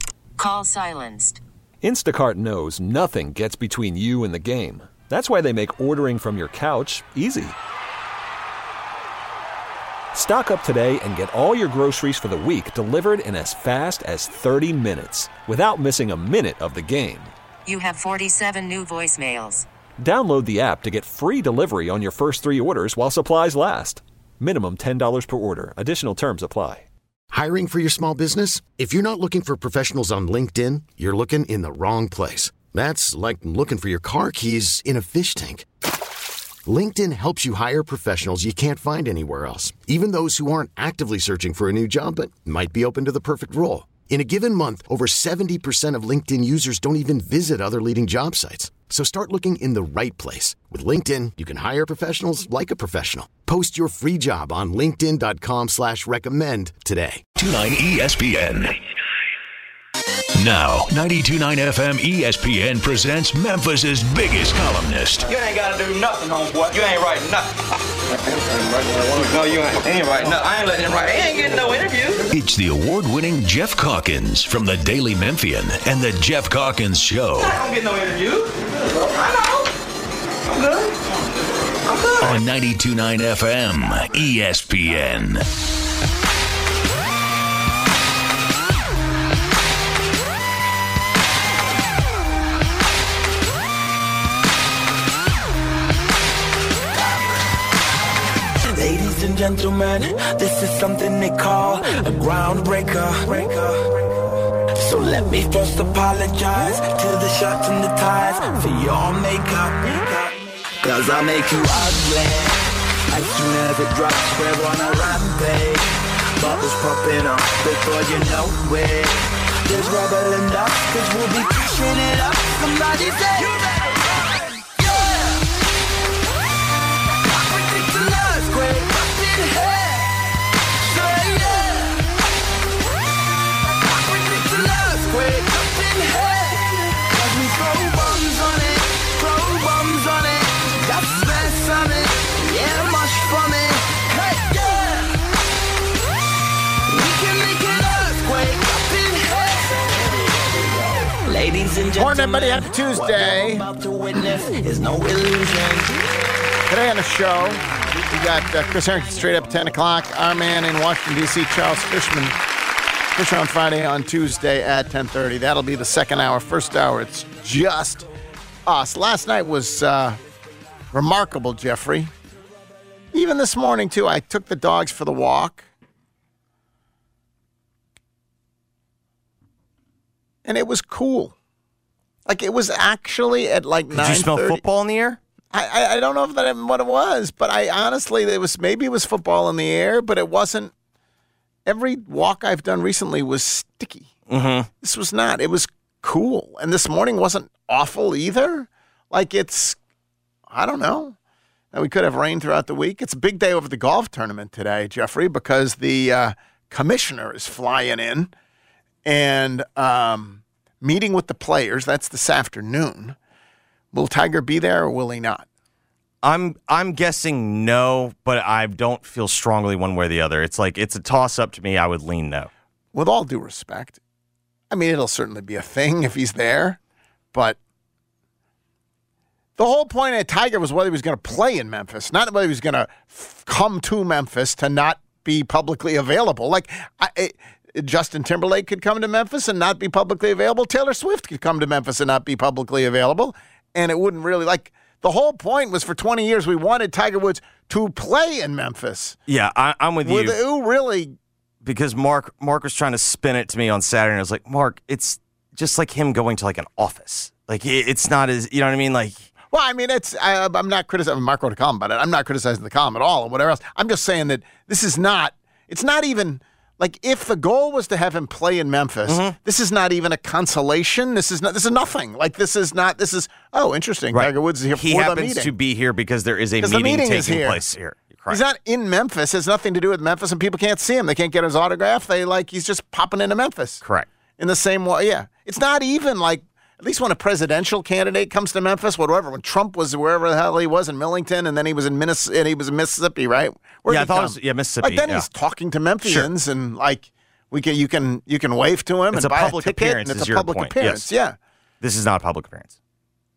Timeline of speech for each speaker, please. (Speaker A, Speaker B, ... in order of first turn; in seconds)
Speaker A: 0.4-1.4, 17.7-19.7
Speaker B: 1.8-7.5, 10.1-17.3, 20.0-26.9
Speaker C: 27.3-35.7, 36.7-57.2
Speaker D: 57.4-58.8, 60.4-65.3, 72.3-77.6, 82.2-85.5
Speaker E: 65.3-67.5, 68.4-72.2, 77.4-79.7, 80.5-81.0, 81.8-82.4
Speaker F: 98.7-104.0, 104.8-125.1, 127.4-130.3, 130.8-132.0, 133.9-145.2, 146.9-155.9
Speaker G: 152.0-153.6, 156.7-157.6, 158.1-162.3, 163.2-168.1, 168.7-170.2, 170.9-172.1, 173.1-175.7, 180.4-181.3, 182.2-184.6, 185.5-190.7, 191.7-194.1, 194.8-199.8, 200.5-201.2, 201.7-208.3, 209.0-213.2, 213.9-215.5, 222.9-224.0, 224.7-226.8, 227.3-227.6, 229.6-249.2, 250.0-251.1, 259.5-275.5, 276.6-277.6, 278.3-283.8, 284.4-301.4
Speaker H: 183.9-185.2, 194.3-194.7, 216.2-222.5, 249.3-250.4, 251.6-259.3, 269.1-269.4, 274.1-278.4, 283.8-284.1, 293.9-295.2, 296.0-296.3, 299.1-301.1, 301.8-302.7